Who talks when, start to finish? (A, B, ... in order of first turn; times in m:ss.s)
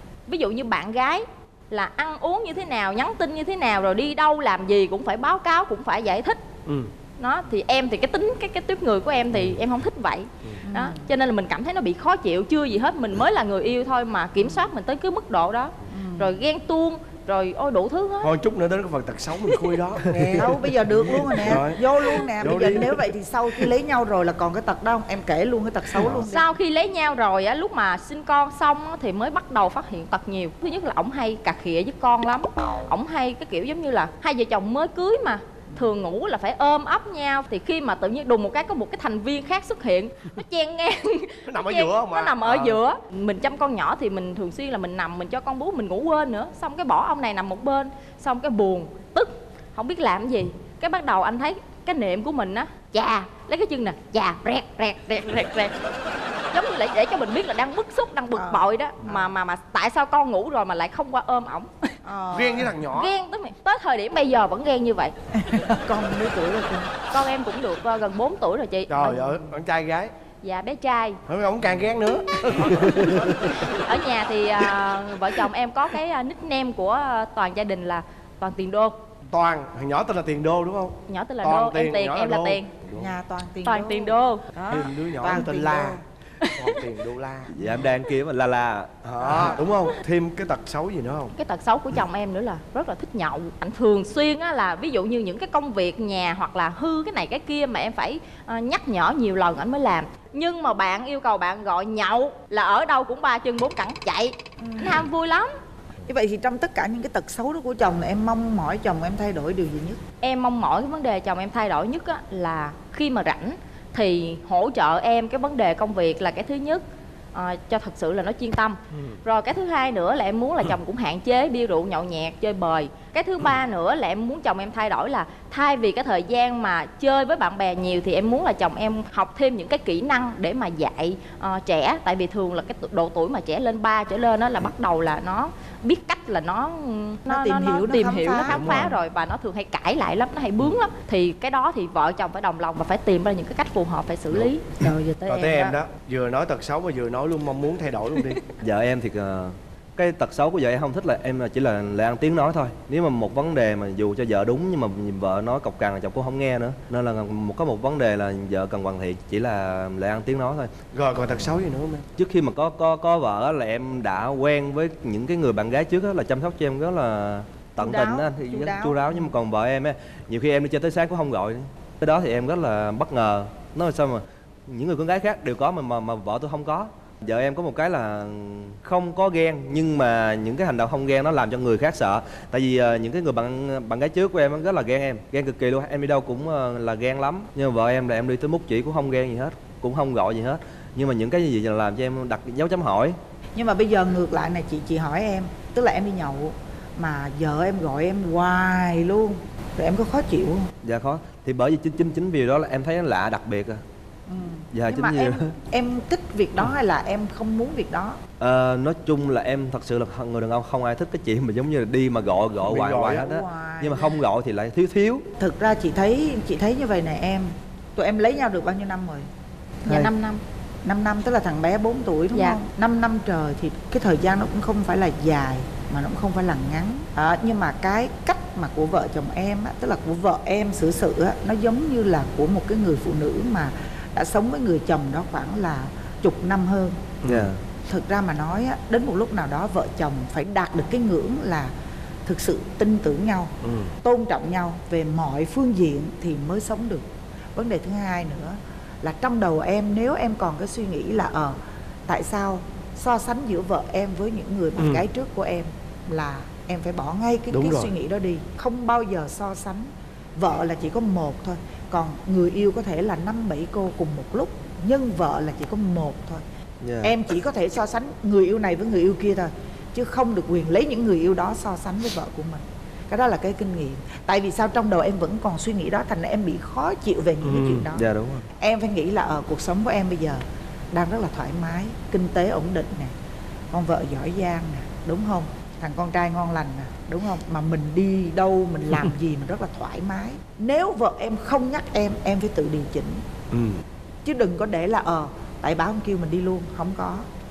0:00.3-0:06.4 A
0:06.6-0:06.9 B
0:07.2-0:18.3 A
0:10.6-0:11.1 C
0:15.9-0:16.4 C
0:18.2-0:23.0 B
0:20.1-0:26.5 C
0:26.0-0:26.2 B
0:26.2-0:55.7 A
0:41.5-0:42.8 B
0:56.5-1:02.0 A
0:58.3-0:59.3 C
1:02.0-1:02.8 C
1:02.3-1:03.1 B
1:02.9-1:05.1 A
1:05.3-1:06.9 C
1:07.1-1:09.2 A
1:08.9-1:10.1 B
1:10.4-1:11.2 A
1:11.3-1:13.7 B
1:13.5-1:19.0 A
1:19.3-1:23.1 B
1:21.1-1:22.7 A
1:22.9-1:26.0 C
1:23.6-1:24.4 A
1:24.7-1:27.8 B
1:26.4-1:26.7 A
1:27.5-1:28.9 D
1:29.0-1:31.3 B
1:29.2-1:29.6 C
1:31.3-1:45.5 A
1:44.6-1:45.1 C
1:46.0-1:50.0 C
1:50.2-1:56.8 A
1:57.3-2:25.8 A
2:17.3-2:18.9 C
2:18.4-2:19.0 B
2:25.2-2:28.4 B
2:28.6-2:40.7 D
2:40.9-2:42.1 B
2:42.2-3:13.2 D
2:47.8-2:49.3 C
3:13.5-3:20.7 C
3:20.8-3:23.8 D
3:24.3-3:28.2 C
3:24.7-3:25.5 D
3:28.4-3:35.2 D
3:32.6-3:33.2 B
3:32.9-3:34.2 C
3:35.4-3:39.3 C
3:39.8-3:40.1 C
3:39.8-3:40.4 A
3:40.8-3:57.1 C
3:42.3-3:42.6 A
3:57.2-3:57.5 B
3:57.2-3:57.6 D
3:57.9-4:01.7 C
4:02.2-4:26.4 C
4:03.6-4:03.9 B
4:14.8-4:15.0 B
4:17.5-4:17.9 B
4:26.8-4:27.1 D
4:27.0-4:38.1 C
4:37.4-4:37.8 B
4:37.9-4:38.5 D
4:38.6-4:43.1 C
4:43.7-4:53.2 C
4:53.5-4:53.8 B
4:54.2-4:57.2 C